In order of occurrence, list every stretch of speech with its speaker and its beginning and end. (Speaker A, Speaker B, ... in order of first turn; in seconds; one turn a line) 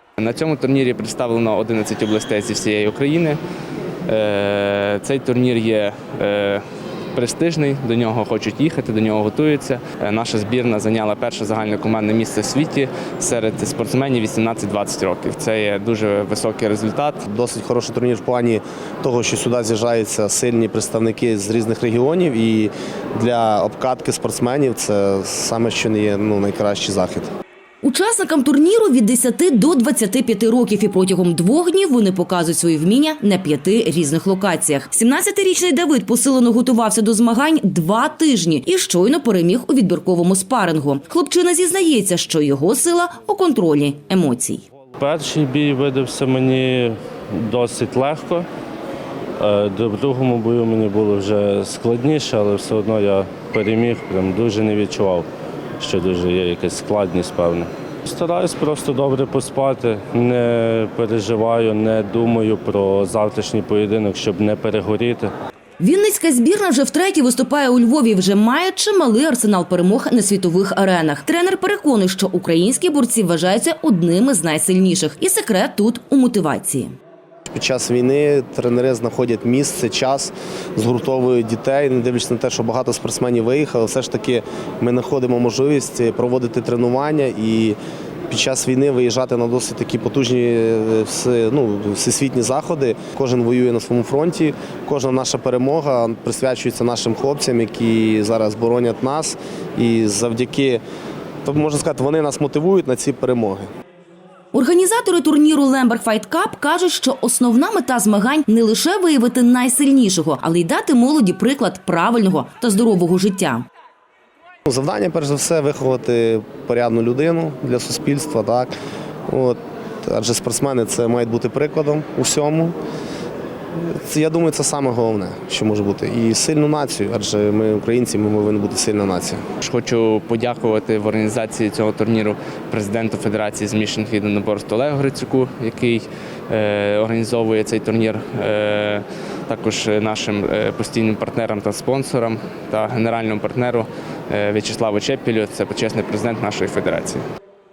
Speaker A: 0.2-3.4
Speaker A: 4.1-6.6
Speaker A: 7.2-17.2
Speaker B: 17.3-27.3
Speaker C: 27.8-44.6
Speaker D: 45.0-48.5
Speaker D: 49.4-55.3
Speaker D: 55.8-65.3
Speaker C: 65.8-76.9
Speaker B: 77.5-87.8
Speaker B: 88.3-100.8
Speaker B: 101.5-103.7
Speaker C: 104.5-113.7
Speaker B: 114.7-118.7
Speaker B: 119.3-122.8
Speaker B: 123.8-129.4
Speaker A: 129.6-147.2